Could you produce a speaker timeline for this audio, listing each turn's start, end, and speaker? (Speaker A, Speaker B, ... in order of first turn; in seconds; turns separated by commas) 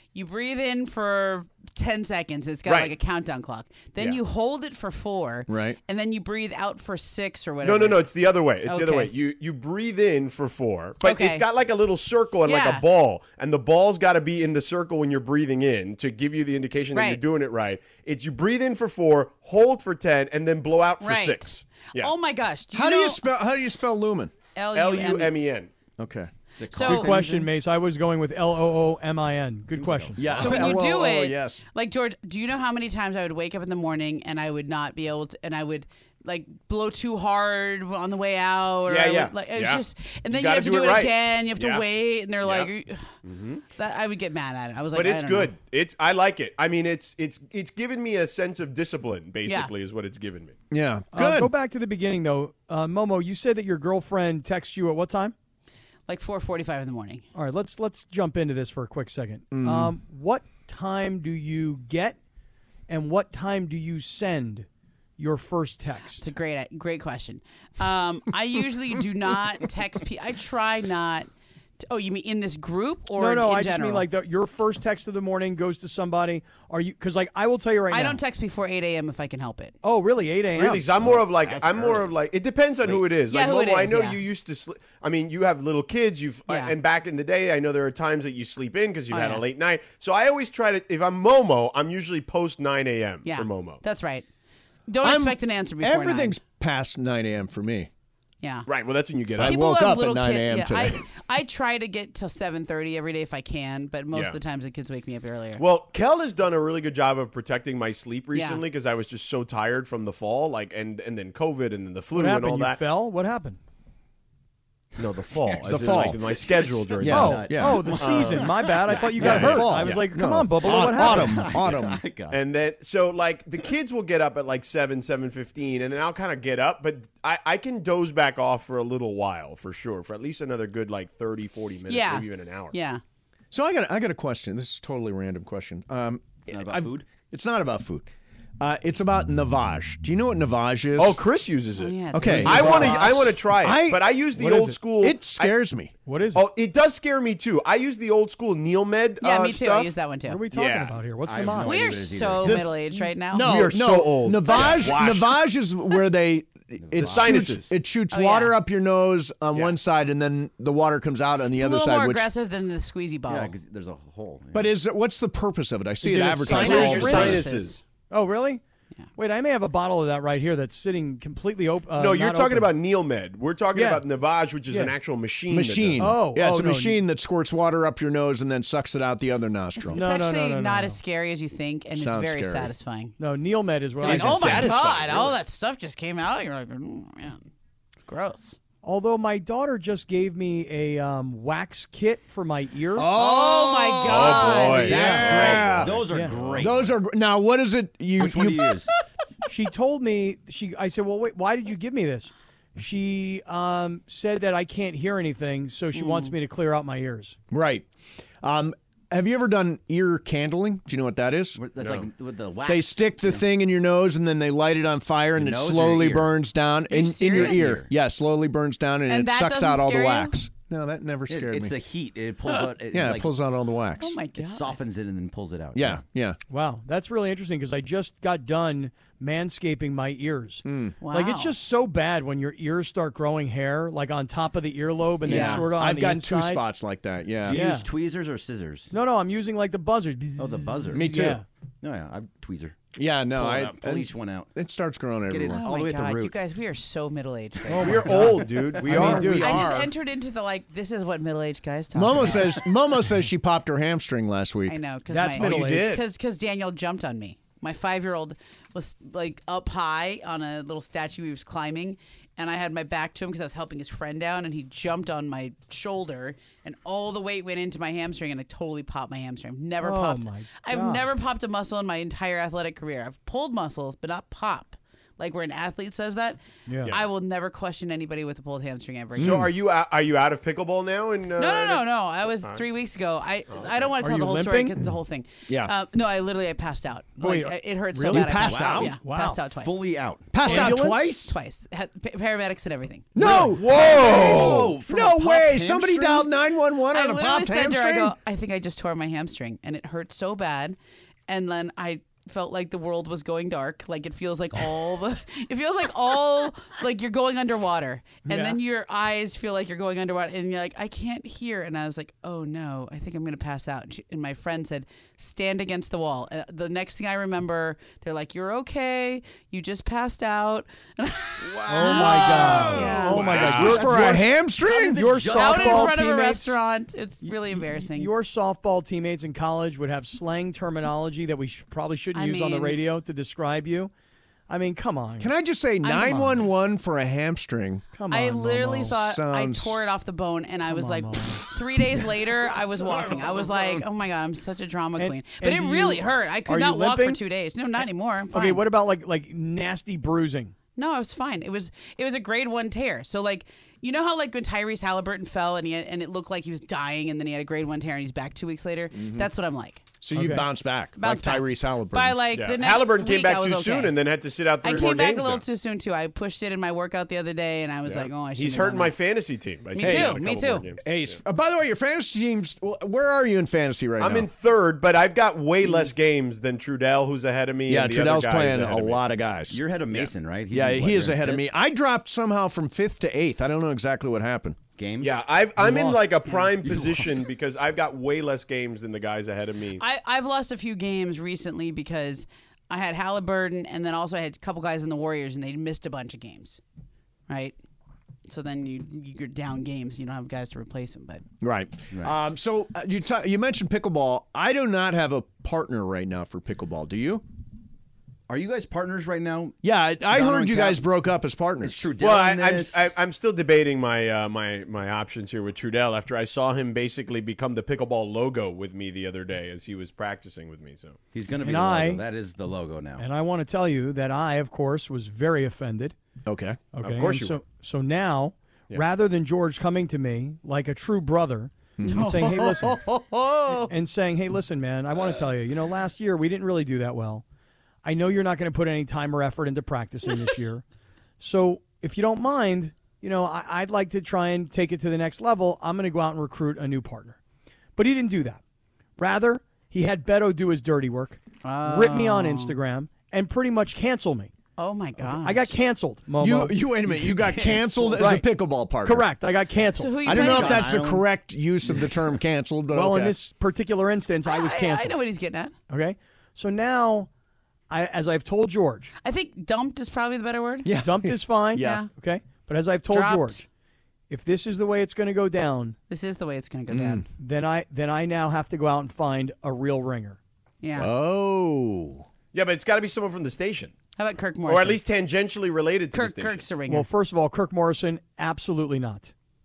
Speaker A: 0.1-8.1, Speaker B: 2.7-3.0, Speaker C: 5.5-5.8, Speaker B: 7.6-22.1, Speaker A: 8.6-9.1, Speaker A: 11.0-11.5, Speaker A: 12.4-12.8, Speaker A: 16.9-17.2, Speaker A: 21.0-23.2, Speaker C: 22.7-24.3, Speaker A: 24.6-25.3, Speaker B: 24.7-25.7, Speaker C: 26.0-26.3, Speaker D: 26.6-27.3, Speaker A: 26.7-27.3, Speaker E: 26.9-30.3, Speaker D: 29.7-30.7, Speaker C: 30.2-31.6, Speaker A: 30.4-43.1, Speaker B: 38.9-41.9, Speaker B: 42.4-42.7, Speaker B: 43.2-43.6, Speaker A: 43.8-45.5, Speaker B: 44.9-50.6, Speaker A: 49.5-49.7, Speaker C: 50.7-51.5, Speaker E: 51.1-55.4, Speaker A: 56.1-57.2, Speaker E: 57.3-62.2, Speaker C: 59.5-60.0, Speaker E: 62.9-64.7, Speaker E: 65.2-66.3, Speaker A: 66.2-71.3, Speaker A: 71.8-74.1, Speaker E: 73.2-78.2, Speaker A: 77.9-79.8, Speaker E: 79.8-80.9, Speaker B: 80.5-93.8, Speaker D: 81.0-82.1, Speaker A: 83.3-84.2, Speaker A: 86.5-86.8, Speaker A: 89.1-89.5, Speaker A: 93.2-94.3, Speaker A: 94.9-96.4, Speaker C: 95.0-97.9, Speaker A: 98.4-98.7, Speaker B: 98.7-99.6, Speaker C: 99.4-101.0, Speaker A: 99.4-105.6, Speaker B: 104.1-104.4, Speaker B: 105.6-112.8, Speaker A: 108.3-108.6, Speaker E: 112.2-113.6, Speaker B: 115.0-120.1, Speaker D: 115.5-119.7, Speaker C: 115.7-116.2, Speaker C: 117.0-117.9, Speaker E: 117.0-121.4, Speaker C: 119.2-122.0, Speaker D: 120.6-122.4, Speaker B: 122.3-132.7, Speaker A: 131.9-133.0, Speaker C: 133.5-141.2, Speaker D: 136.5-137.1, Speaker B: 141.0-145.6, Speaker A: 141.8-143.3, Speaker C: 142.1-145.9, Speaker E: 142.2-143.2, Speaker E: 144.4-144.7, Speaker E: 146.1-146.4, Speaker B: 146.3-149.9, Speaker A: 149.2-150.4, Speaker E: 150.2-151.9, Speaker B: 150.5-151.0, Speaker D: 151.2-152.6, Speaker A: 151.6-153.6, Speaker C: 152.4-162.3, Speaker B: 153.4-155.3, Speaker A: 154.5-155.1, Speaker D: 156.8-157.5, Speaker B: 157.0-157.7, Speaker A: 158.1-158.6, Speaker A: 161.6-163.5, Speaker D: 163.3-164.8, Speaker C: 164.5-167.4, Speaker E: 166.0-168.6, Speaker B: 166.1-167.8, Speaker A: 166.5-167.8, Speaker E: 169.2-172.8, Speaker B: 171.9-176.2, Speaker E: 173.7-174.1, Speaker C: 175.5-180.0, Speaker E: 176.0-177.0, Speaker A: 179.8-183.2, Speaker E: 179.9-181.0, Speaker C: 181.9-182.7, Speaker E: 183.2-184.7, Speaker A: 184.0-187.5, Speaker B: 184.0-185.4, Speaker C: 184.1-184.8, Speaker A: 188.1-188.6, Speaker E: 188.8-193.1, Speaker C: 192.9-198.7, Speaker A: 193.1-195.0, Speaker B: 194.1-196.7, Speaker D: 194.8-197.0, Speaker E: 194.9-195.4, Speaker E: 196.0-196.3, Speaker D: 198.2-198.9, Speaker E: 199.5-207.4, Speaker C: 207.5-212.0, Speaker D: 211.6-213.4, Speaker C: 212.7-221.7, Speaker D: 215.4-216.3, Speaker A: 216.9-217.8, Speaker D: 217.2-217.9, Speaker A: 219.1-220.4, Speaker D: 221.3-223.3, Speaker C: 222.9-224.2, Speaker A: 224.0-224.8, Speaker D: 224.4-226.0, Speaker C: 225.8-226.4, Speaker E: 226.5-236.7, Speaker C: 230.7-230.9, Speaker A: 231.0-231.6, Speaker A: 235.2-235.7, Speaker C: 235.3-237.6, Speaker D: 237.4-238.9, Speaker E: 237.5-237.9, Speaker E: 238.9-241.4, Speaker D: 240.4-241.2, Speaker C: 240.9-241.4, Speaker D: 241.8-242.8, Speaker C: 243.0-245.6, Speaker D: 243.3-244.5, Speaker D: 245.3-246.3, Speaker A: 245.5-252.7, Speaker B: 247.7-249.8, Speaker E: 247.9-249.8, Speaker C: 249.1-249.9, Speaker C: 251.9-254.8, Speaker A: 254.7-279.4, Speaker E: 255.1-256.0, Speaker B: 255.4-256.0, Speaker C: 255.5-255.7, Speaker E: 269.8-271.1, Speaker E: 276.7-276.9, Speaker C: 279.2-279.5, Speaker B: 279.2-281.9, Speaker A: 281.4-289.7, Speaker B: 283.5-283.9, Speaker E: 284.0-284.8, Speaker C: 285.5-285.7, Speaker E: 287.2-289.4, Speaker C: 288.0-288.9, Speaker D: 288.4-289.0, Speaker D: 289.6-290.4, Speaker C: 290.3-291.3, Speaker E: 290.4-291.1, Speaker A: 290.4-294.1, Speaker C: 293.1-298.1, Speaker E: 293.2-293.7, Speaker D: 293.2-296.3, Speaker A: 296.9-323.7, Speaker E: 308.2-308.6, Speaker E: 321.7-324.3, Speaker C: 321.7-325.2, Speaker D: 321.9-322.8, Speaker B: 323.1-323.8, Speaker D: 323.4-325.9, Speaker E: 324.9-326.6, Speaker A: 325.3-328.1, Speaker E: 327.7-333.9, Speaker A: 332.1-332.8, Speaker E: 334.5-335.3, Speaker C: 335.2-337.9, Speaker A: 335.8-336.4, Speaker E: 335.9-336.4, Speaker E: 337.9-339.0, Speaker A: 338.1-348.6, Speaker C: 338.8-339.8, Speaker E: 340.7-341.5, Speaker E: 345.0-347.2, Speaker E: 347.8-350.6, Speaker A: 350.8-359.8, Speaker C: 358.9-359.3, Speaker C: 360.0-362.2, Speaker E: 360.1-360.5, Speaker A: 361.0-364.0, Speaker B: 362.3-365.4, Speaker A: 364.6-369.0, Speaker B: 367.9-371.2, Speaker A: 369.7-370.7, Speaker C: 369.8-370.2, Speaker C: 370.8-374.3, Speaker B: 374.0-379.0, Speaker C: 377.7-379.6, Speaker D: 379.5-381.5, Speaker C: 380.5-384.6, Speaker D: 384.8-385.2, Speaker B: 385.0-389.8, Speaker E: 385.6-386.7, Speaker D: 386.7-387.0, Speaker A: 389.8-396.6, Speaker A: 397.3-397.6, Speaker A: 398.3-401.2, Speaker C: 401.4-407.2, Speaker D: 408.3-410.9, Speaker C: 409.6-411.8, Speaker D: 411.6-412.9, Speaker B: 412.0-421.0, Speaker D: 421.1-423.1, Speaker E: 421.4-422.0, Speaker E: 423.0-426.0, Speaker C: 426.2-426.6, Speaker E: 426.7-432.9, Speaker B: 426.8-427.4, Speaker C: 431.8-432.3, Speaker A: 431.9-433.7, Speaker E: 433.6-437.2, Speaker E: 437.8-440.6, Speaker E: 441.2-447.2, Speaker E: 447.8-448.4, Speaker E: 449.0-454.3, Speaker A: 451.4-452.6, Speaker A: 454.6-455.6, Speaker E: 455.0-457.1, Speaker C: 456.2-459.1, Speaker A: 457.4-457.8, Speaker E: 457.9-460.1, Speaker A: 459.8-460.7, Speaker C: 460.1-463.2, Speaker D: 460.1-461.1, Speaker E: 462.7-465.0, Speaker A: 464.2-465.6, Speaker E: 465.7-467.1, Speaker E: 467.7-468.9, Speaker A: 469.0-470.7, Speaker C: 470.6-471.8, Speaker E: 470.7-473.5, Speaker A: 471.6-471.9, Speaker A: 472.9-473.4, Speaker E: 474.1-475.8, Speaker A: 475.9-477.1, Speaker C: 476.7-477.1, Speaker E: 477.2-480.2, Speaker A: 480.6-480.9, Speaker C: 480.8-482.1, Speaker B: 482.3-483.7, Speaker A: 484.0-484.8, Speaker B: 484.5-486.5, Speaker A: 485.9-486.9, Speaker E: 486.7-489.1